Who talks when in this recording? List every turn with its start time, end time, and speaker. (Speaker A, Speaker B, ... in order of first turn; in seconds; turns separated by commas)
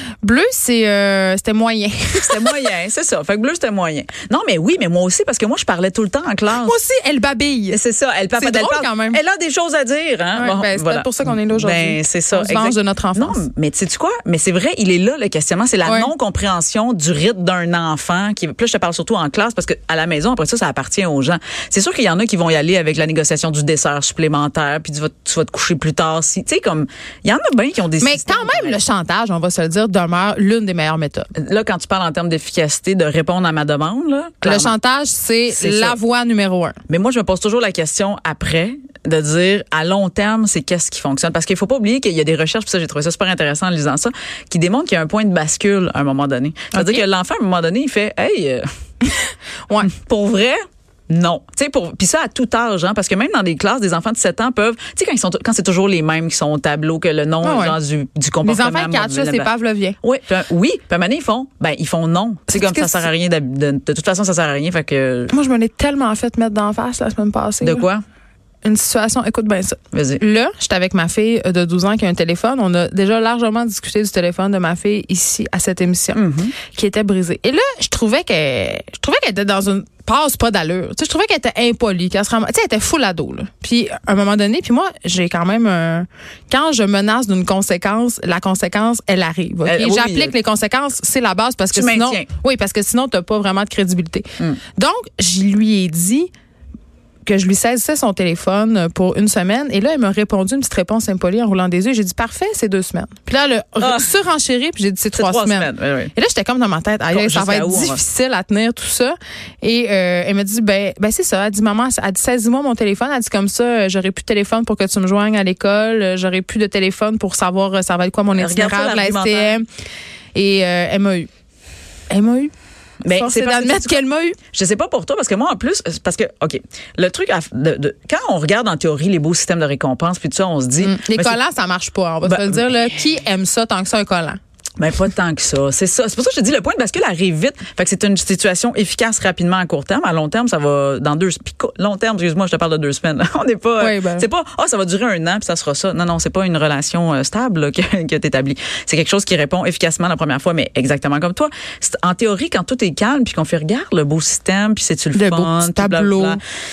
Speaker A: 0.2-2.7, Speaker B: 2.2-6.8, Speaker A: 6.5-7.8, Speaker B: 7.7-28.8, Speaker A: 8.3-9.2, Speaker A: 10.3-13.4, Speaker A: 15.8-16.1, Speaker A: 28.0-31.3, Speaker B: 31.4-34.8, Speaker A: 34.4-36.8, Speaker B: 35.5-36.0, Speaker B: 36.9-48.6, Speaker A: 46.7-47.0, Speaker A: 49.0-49.9, Speaker B: 49.8-59.5, Speaker A: 57.4-57.8, Speaker A: 58.4-60.0, Speaker B: 60.0-65.3, Speaker A: 62.5-63.1, Speaker A: 65.3-67.9, Speaker B: 67.6-68.0, Speaker A: 68.6-96.3, Speaker B: 69.9-70.2, Speaker B: 76.1-76.5, Speaker B: 89.7-90.3, Speaker B: 91.7-92.3, Speaker A: 97.2-119.6, Speaker B: 103.8-104.1, Speaker B: 105.1-106.1, Speaker B: 107.1-108.0, Speaker B: 118.3-119.6, Speaker A: 120.3-121.3, Speaker A: 122.1-122.5, Speaker B: 123.0-131.4, Speaker A: 123.1-124.4, Speaker A: 130.8-134.4, Speaker B: 132.2-132.6, Speaker B: 134.8-156.4, Speaker A: 143.8-144.3, Speaker A: 155.1-156.4